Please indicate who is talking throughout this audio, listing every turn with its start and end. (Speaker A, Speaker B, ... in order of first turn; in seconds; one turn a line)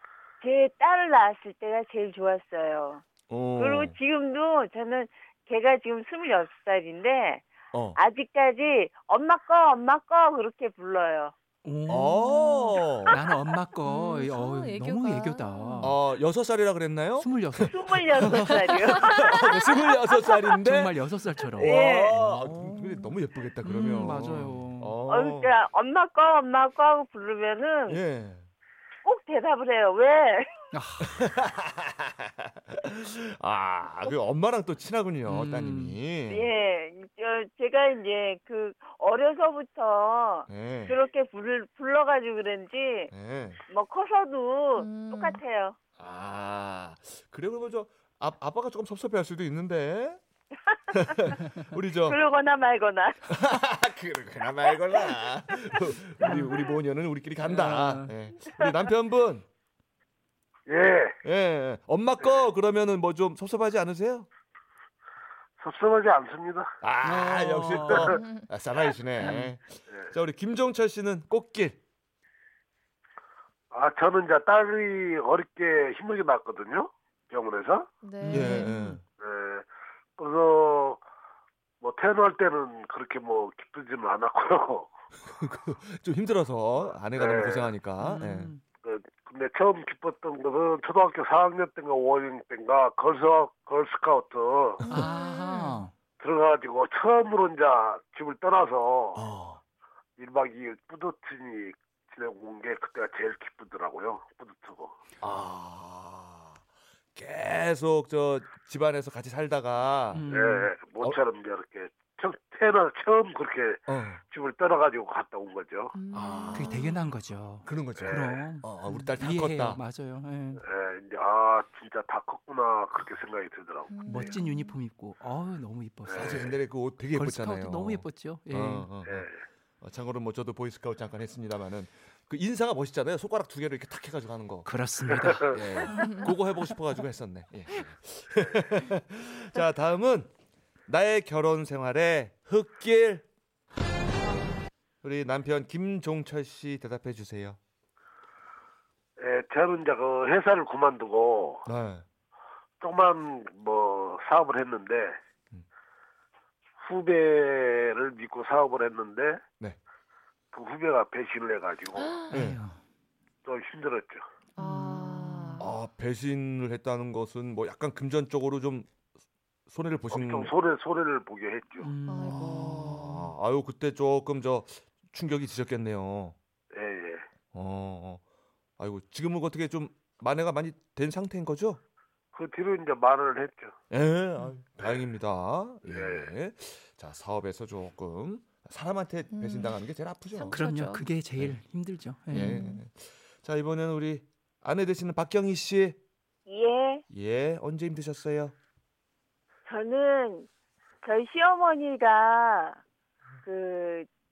Speaker A: 0.4-3.0
Speaker B: 3.3-4.0
Speaker A: 3.6-11.3
Speaker C: 11.6-12.4
Speaker B: 11.9-13.2
Speaker D: 12.2-12.7
Speaker C: 13.1-16.0
Speaker D: 13.8-15.9
Speaker B: 15.8-20.9
Speaker C: 17.2-19.1
Speaker A: 17.6-19.7
Speaker C: 20.6-22.7
Speaker A: 21.6-22.1
Speaker B: 21.6-25.5
Speaker C: 23.6-25.0
Speaker A: 25.1-28.0
Speaker B: 27.9-28.5
Speaker A: 29.0-30.5
Speaker C: 30.7-31.2
Speaker B: 31.0-36.5
Speaker C: 35.2-36.0
Speaker A: 36.3-43.1
Speaker B: 40.5-41.0
Speaker B: 43.1-43.6
Speaker A: 43.7-45.8
Speaker D: 44.8-45.4
Speaker B: 46.0-50.2
Speaker A: 50.7-51.3
Speaker B: 50.9-52.2
Speaker A: 52.0-53.4
Speaker B: 53.3-59.5
Speaker C: 56.2-56.5
Speaker C: 57.4-58.1
Speaker E: 60.7-61.1
Speaker B: 61.2-64.3
Speaker E: 65.6-66.7
Speaker B: 66.8-71.8
Speaker C: 67.0-68.1
Speaker E: 67.8-68.2
Speaker D: 68.1-68.5
Speaker C: 69.2-69.5
Speaker E: 73.7-77.9
Speaker D: 78.0-78.9
Speaker C: 78.2-79.0
Speaker B: 78.3-79.0
Speaker E: 79.2-79.7
Speaker E: 80.2-81.0
Speaker E: 81.8-84.9
Speaker B: 85.2-88.5
Speaker E: 87.2-87.7
Speaker C: 88.0-88.6
Speaker E: 88.8-94.8
Speaker B: 94.8-95.1
Speaker D: 94.9-95.8
Speaker C: 94.9-95.9
Speaker E: 96.2-99.2
Speaker B: 99.1-99.6
Speaker E: 100.2-105.0
Speaker B: 105.2-106.6
Speaker B: 107.1-110.2
Speaker C: 110.1-110.7
Speaker E: 110.3-115.9
Speaker B: 113.9-114.2
Speaker D: 115.9-117.0
Speaker B: 116.1-116.9
Speaker C: 116.5-120.6
Speaker B: 117.7-119.8
Speaker E: 118.0-118.4
Speaker E: 120.6-124.3
Speaker D: 123.9-124.8
Speaker C: 124.1-126.5
Speaker E: 126.1-126.5
Speaker B: 126.1-129.3
Speaker C: 127.1-128.9
Speaker E: 129.1-129.3
Speaker B: 129.8-134.7
Speaker C: 134.6-136.3
Speaker E: 135.3-135.6
Speaker B: 135.3-140.3
Speaker B: 140.9-143.2
Speaker B: 145.0-147.6
Speaker E: 149.2-151.7
Speaker B: 151.7-152.1
Speaker E: 152.8-155.2
Speaker E: 156.8-159.4
Speaker E: 160.5-162.2
Speaker D: 162.0-162.3
Speaker C: 162.3-162.8
Speaker B: 162.3-162.6
Speaker E: 163.4-164.2
Speaker D: 164.6-165.7
Speaker C: 164.6-165.7
Speaker B: 165.6-168.9
Speaker B: 169.7-170.5
Speaker E: 170.1-171.9
Speaker C: 171.8-173.3
Speaker D: 172.1-172.8
Speaker B: 172.2-176.4
Speaker E: 176.7-177.2
Speaker B: 177.5-178.2
Speaker B: 178.8-181.8
Speaker E: 182.3-183.8
Speaker B: 183.9-190.6
Speaker E: 185.9-186.3
Speaker D: 189.3-189.8
Speaker D: 190.3-191.1
Speaker C: 190.5-192.6
Speaker B: 192.3-196.0
Speaker D: 192.3-192.8
Speaker A: 196.5-197.0
Speaker B: 197.1-198.6
Speaker A: 199.7-200.5
Speaker A: 201.0-202.8
Speaker A: 203.4-204.1